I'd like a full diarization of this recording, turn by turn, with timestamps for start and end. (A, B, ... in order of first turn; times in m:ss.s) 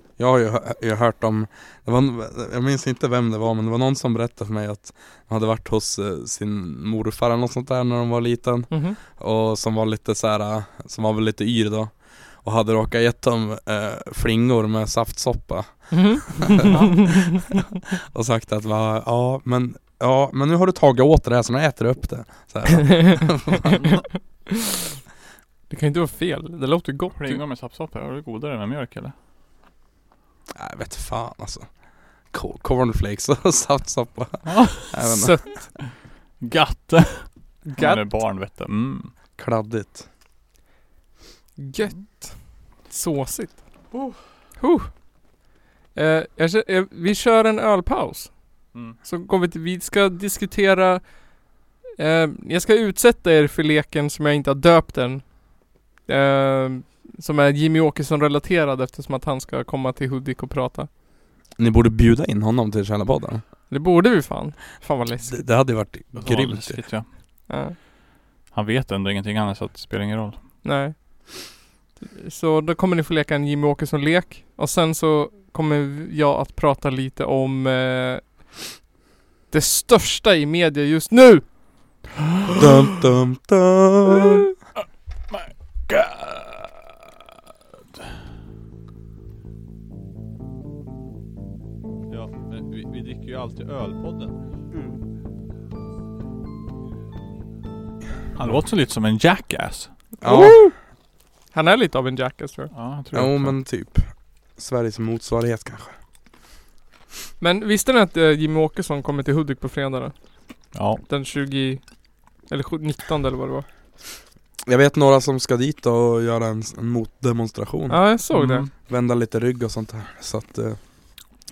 0:00.2-0:17.3 A
0:08.7-0:09.0 B
0:15.9-0:17.4 B
0:16.6-0:17.0 C
0:17.9-0:23.9 A
0:25.7-0:27.4 B
0:27.2-0:29.1 C
0:30.5-0:35.4 A
0:34.4-0:34.9 C
0:35.0-0:35.8 B
0:36.4-0:39.1 C
0:37.6-0:38.0 B
0:39.4-0:40.1 A
0:41.6-0:43.6 B
0:43.9-0:44.2 C
0:44.6-0:44.9 B
0:46.0-0:51.3 B
0:52.0-0:55.4 B
0:56.0-1:00.9 B
1:01.6-1:03.4 A
1:03.7-1:05.5 B
1:05.3-1:06.8 A
1:06.1-1:07.1 C
1:07.5-1:07.8 B
1:08.5-1:10.4 C
1:10.6-1:18.4 B
1:19.5-1:21.6 B
1:22.5-1:24.5 A
1:25.3-1:26.9 C
1:32.1-1:34.4 C
1:38.4-1:39.9 C
1:40.2-1:40.7 B
1:40.2-1:40.6 A
1:41.5-1:42.7 B
1:42.7-1:43.6 C
1:43.1-1:46.0 A
1:47.4-1:50.1 B
1:50.7-1:51.0 C
1:51.1-1:51.8 B
1:52.5-1:53.6 B
1:54.6-1:58.0 A
1:57.9-1:58.7 B
1:58.3-1:58.7 C
1:58.8-2:00.8 A